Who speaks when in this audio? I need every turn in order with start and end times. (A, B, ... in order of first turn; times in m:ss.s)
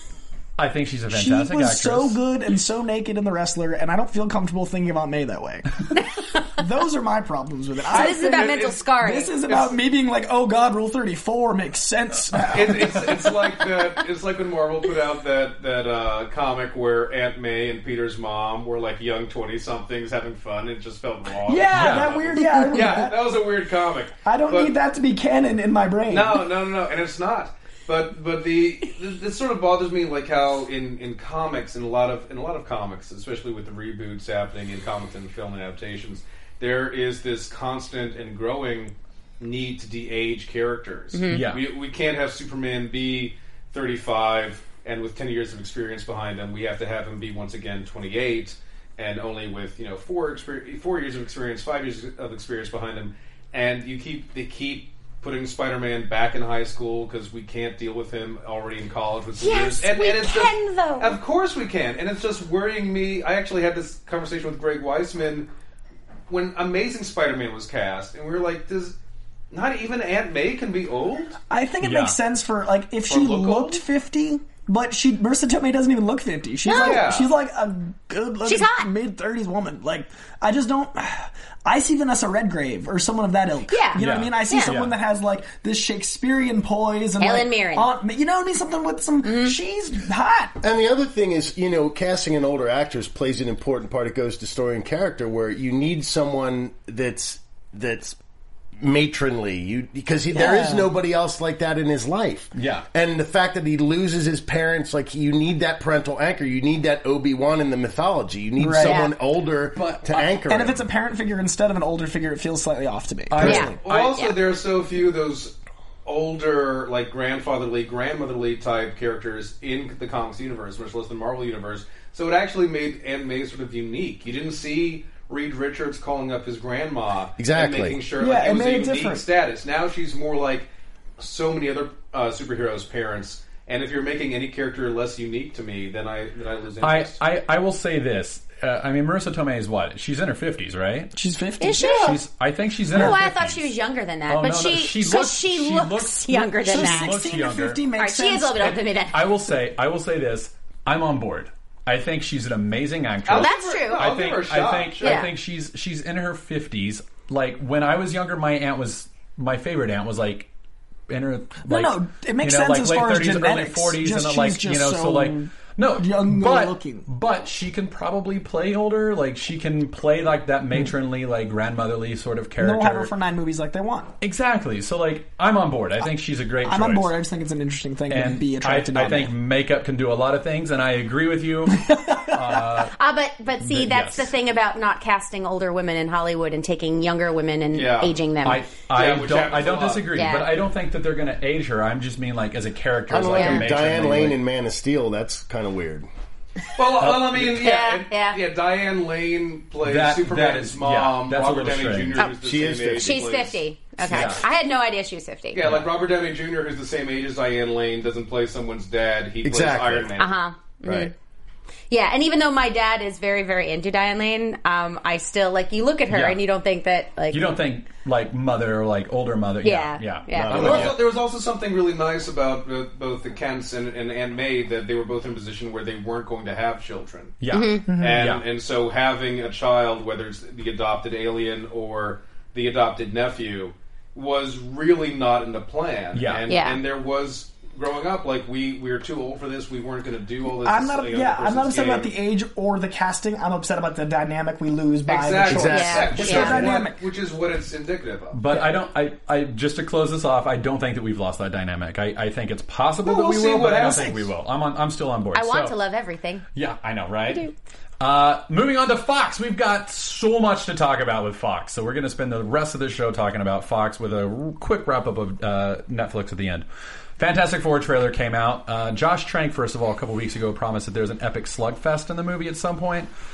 0:00.6-0:02.2 A
0:01.1-0:05.8 B
0:05.9-0:06.6 C
0:06.6-0:13.2 B
0:07.9-0:09.4 C
0:07.9-0:08.9 D
0:09.5-0:09.8 D
0:12.5-0:24.8 D
0:21.5-0:23.4 B
0:21.7-0:22.8 A
0:24.2-0:26.4 B
0:26.1-1:05.5 D
0:41.1-0:41.4 C
0:41.3-0:41.7 A
0:59.4-1:01.2 C
1:06.3-1:09.0 D
1:09.5-1:11.4 D
1:11.5-1:30.6 B
1:11.8-1:12.2 A
1:13.1-1:13.8 D
1:16.6-1:17.1 C
1:16.7-1:17.3 D
1:18.4-1:18.9 C
1:23.7-1:24.8 C
1:24.0-1:25.0 A
1:27.2-1:27.9 C
1:29.2-1:29.6 C
1:30.6-1:38.2 E
1:38.8-1:50.8 E
1:40.3-1:40.9 B
1:42.6-1:42.9 A
1:48.6-1:49.1 B
1:48.8-1:49.1 C
1:49.8-1:50.4 A
1:50.5-1:53.8 B
1:53.3-1:54.1 A
1:53.4-1:54.4 C
1:53.6-2:17.2 D
2:07.4-2:08.0 E
2:08.2-2:09.2 B
2:16.8-2:21.2 A
2:21.2-2:22.2 B
2:21.6-2:22.2 C
2:22.0-2:23.7 A
2:22.9-2:27.2 C
2:24.3-2:27.8 A
2:26.6-2:28.7 B
2:28.0-2:29.2 C
2:28.6-2:40.5 A
2:33.2-2:35.3 D
2:33.3-2:34.1 C
2:35.0-2:35.3 C
2:41.1-2:53.1 A
2:41.7-2:47.1 B
2:52.6-2:54.1 B
2:54.2-2:57.1 A
2:56.6-2:59.4 B
2:58.1-3:03.0 A
3:01.9-3:02.4 B
3:02.8-3:08.6 C
3:03.6-3:04.3 A
3:07.7-3:08.2 D
3:08.4-3:14.4 A
3:08.9-3:10.2 D
3:10.1-3:10.5 C
3:13.1-3:16.1 E
3:13.3-3:13.6 C
3:16.8-3:23.6 D
3:17.0-3:17.6 A
3:17.6-3:18.4 C
3:19.8-3:22.3 A
3:22.4-3:23.2 E
3:23.0-3:25.6 C
3:24.0-3:24.4 A
3:25.5-3:30.4 D
3:25.6-3:25.9 A
3:29.4-3:30.1 E
3:30.2-3:31.1 C
3:30.8-3:31.1 E
3:31.9-3:37.5 C
3:36.1-3:36.4 A
3:37.3-3:41.0 A
3:39.6-3:40.9 C
3:40.3-3:41.0 E
3:40.5-3:47.4 D
3:47.4-3:48.4 A
3:47.5-3:47.8 C
3:47.9-3:48.2 B
3:47.9-4:02.1 D
3:56.1-3:56.5 A
3:56.5-3:56.8 C
4:00.6-4:07.0 B
4:05.1-4:08.4 D
4:05.4-4:06.5 E
4:05.7-4:06.7 C
4:08.3-4:15.8 A
4:13.0-4:14.2 D
4:13.8-4:14.1 B
4:15.3-4:16.4 C
4:16.6-4:26.6 A
4:27.2-4:33.1 A